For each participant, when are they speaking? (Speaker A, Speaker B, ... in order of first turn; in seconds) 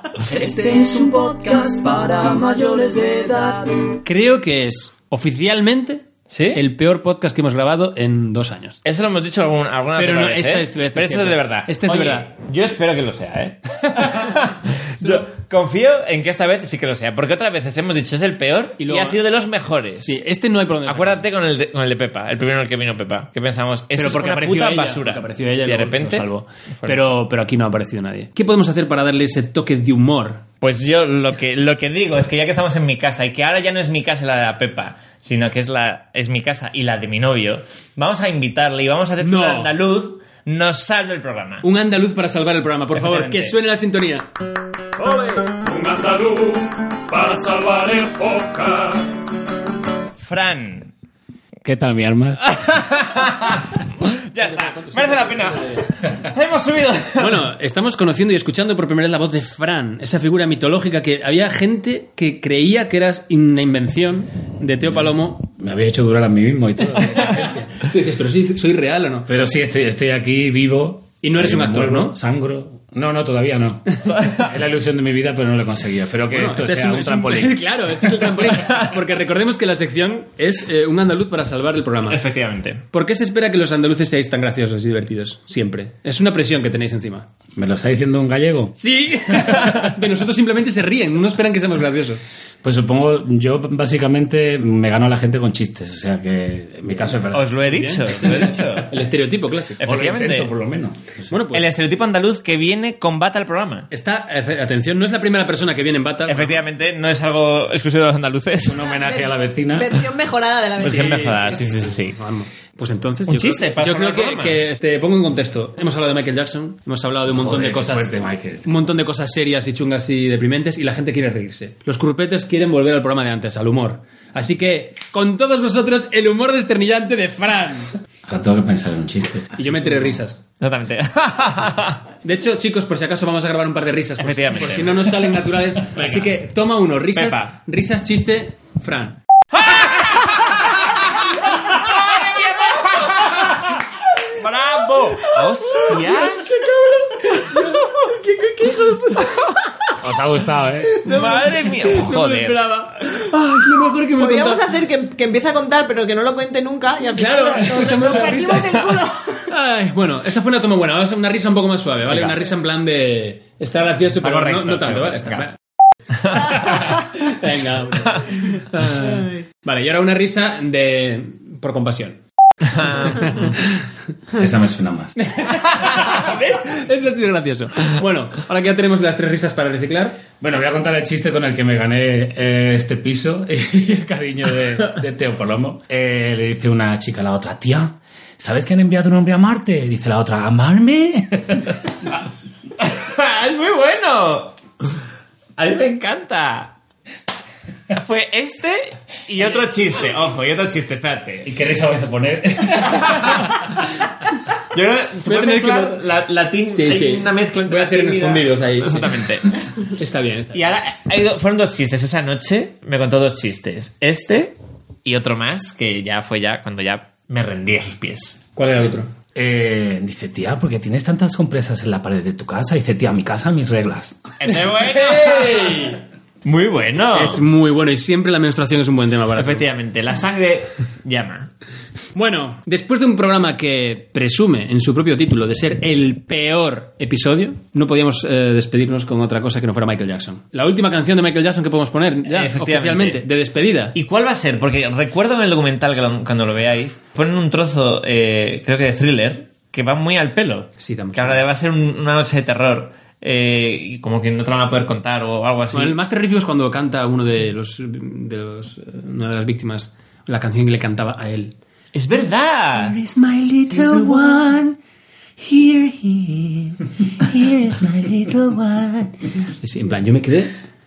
Speaker A: 0.3-3.9
Speaker B: 4.0-8.8, 9.9-12.3, 14.0-14.3, 15.0-15.3, 18.8-19.2, 19.9-21.2, 23.9-30.4, 39.2-39.8, 41.6-44.2, 45.7-46.3, 47.2-48.4, 54.4-55.9, 57.2-65.5, 67.1-69.3, 71.2-72.1, 76.3-82.2, 82.9-87.3, 88.8-92.2, 97.7-99.8, 101.3-101.7, 103.9-106.6, 110.8-127.9, 129.6-130.4, 132.2-139.2, 145.3-149.5, 150.9-154.6, 157.2-165.6, 166.5-172.2, 172.8-173.5, 175.2-180.2, 205.2-206.0, 206.7-209.2, 209.8-210.7, 218.6-219.1, 224.5-226.0, 227.1-229.7, 232.1-244.0, 250.8-251.4, 255.7-261.5, 262.8-264.8, 265.4-270.5
Speaker C: 6.3-6.6, 8.8-20.2, 20.9-26.3, 30.6-41.6, 42.9-43.5, 50.2-50.9, 52.4-57.5, 74.1-74.5, 78.5-78.8, 82.1-82.8, 89.1-89.9, 97.3-98.9, 99.8-100.5, 101.5-103.9, 106.3-108.8, 110.8-112.2, 113.3-114.6, 130.6-132.0, 134.2-135.3, 135.9-136.3, 137.1-137.5, 139.6-146.6, 151.0-152.6, 164.2-165.5, 166.2-167.0, 172.8-173.4, 192.8-194.6, 195.6-196.8, 197.9-201.5, 202.8-203.8, 204.7-209.5, 210.5-218.4, 224.4-227.4, 229.3-231.5, 242.2-243.2, 243.9-256.0, 261.9-263.0
Speaker D: 51.6-52.4, 65.5-67.6, 69.3-77.6, 87.5-88.8, 92.6-97.5, 99.8-101.2, 108.6-110.0, 117.3-118.8, 128.2-130.2, 150.0-151.0, 174.3-175.2, 180.4-191.8, 201.4-203.4, 219.3-224.4
Speaker E: 108.8-111.4, 154.2-159.4